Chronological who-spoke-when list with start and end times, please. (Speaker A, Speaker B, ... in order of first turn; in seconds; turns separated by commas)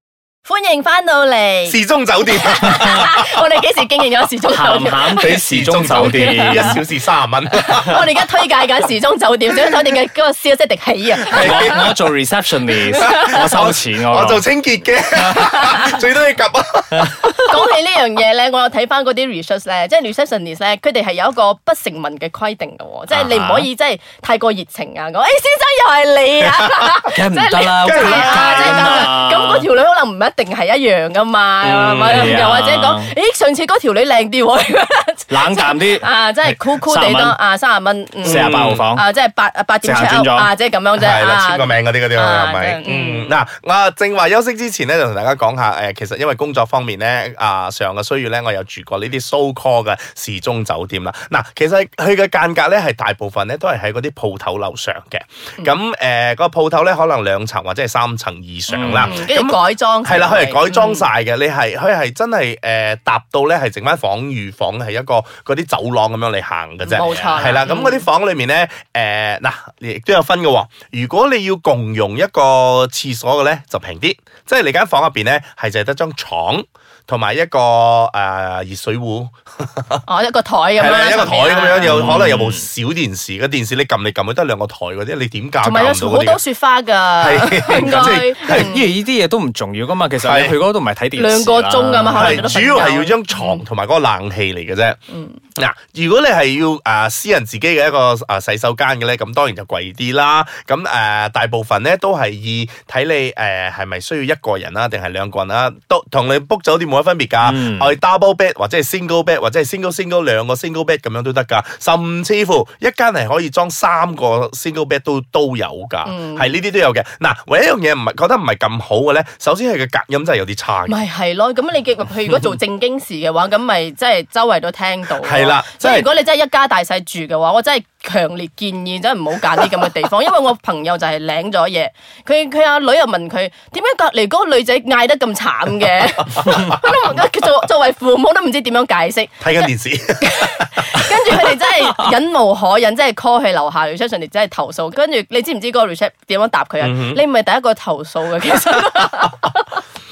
Speaker A: 0.4-5.3, Speaker B: 1.7-3.2, Speaker C: 4.5-6.8, Speaker B: 5.2-8.0, Speaker A: 6.0-6.8, Speaker A: 7.5-11.9, Speaker B: 11.2-11.9, Speaker C: 11.3-14.4, Speaker A: 12.9-13.4, Speaker B: 13.0-17.6, Speaker C: 15.2-15.9, Speaker C: 16.9-17.5, Speaker A: 17.4-43.3, Speaker C: 23.1-23.7, Speaker C: 27.1-29.7, Speaker B: 27.8-29.1, Speaker B: 31.6-32.3, Speaker C: 32.0-33.1, Speaker C: 35.3-37.4, Speaker C: 38.2-39.0, Speaker B: 38.2-38.8, Speaker C: 39.8-40.5, Speaker B: 41.0-80.0, Speaker C: 58.7-59.1, Speaker A: 59.0-61.0, Speaker A: 66.8-68.0, Speaker C: 67.0-67.8, Speaker A: 80.1-82.2, Speaker B: 80.8-86.4, Speaker C: 81.8-82.7, Speaker A: 85.6-88.9, Speaker B: 87.2-88.7, Speaker C: 87.8-92.5, Speaker B: 90.2-90.6, Speaker A: 91.2-93.6, Speaker B: 92.1-95.0, Speaker A: 95.1-95.4, Speaker B: 95.6-121.0, Speaker C: 107.4-108.0, Speaker A: 116.0-116.5, Speaker A: 120.8-139.7, Speaker B: 125.2-126.1, Speaker B: 139.4-141.6, Speaker A: 140.2-149.8, Speaker B: 146.8-147.2